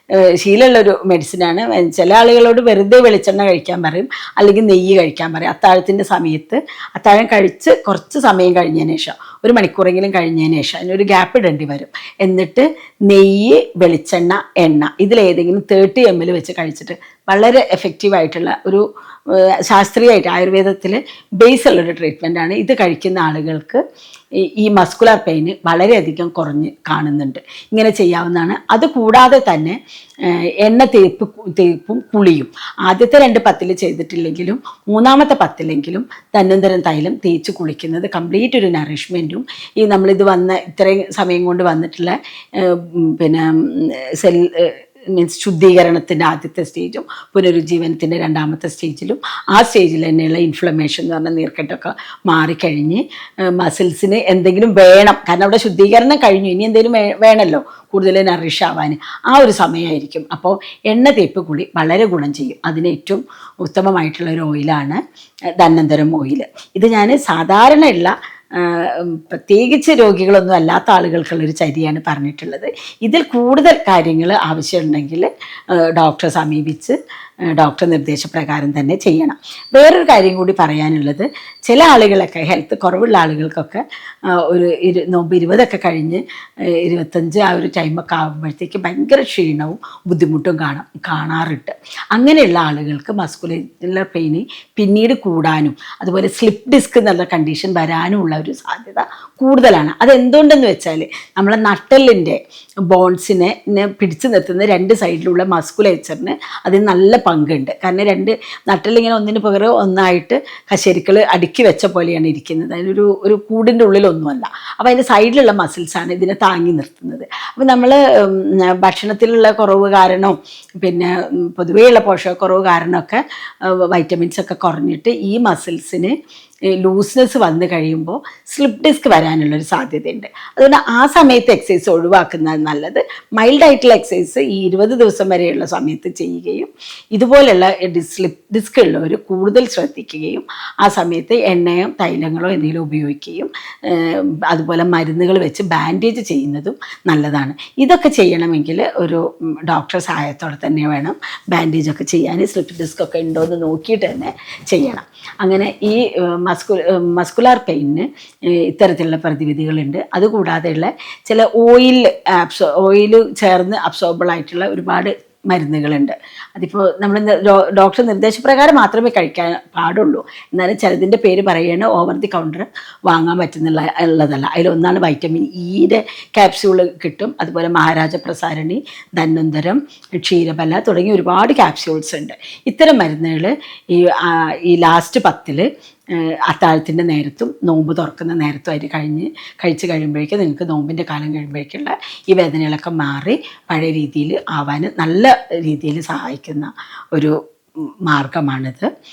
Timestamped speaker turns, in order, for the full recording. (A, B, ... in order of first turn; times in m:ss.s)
0:00.2-0:23.8 A
0:24.4-1:05.0 A
1:05.6-1:17.0 A
1:17.6-1:23.8 A
1:24.4-2:06.1 A
2:06.8-3:17.4 A
3:18.1-3:18.9 A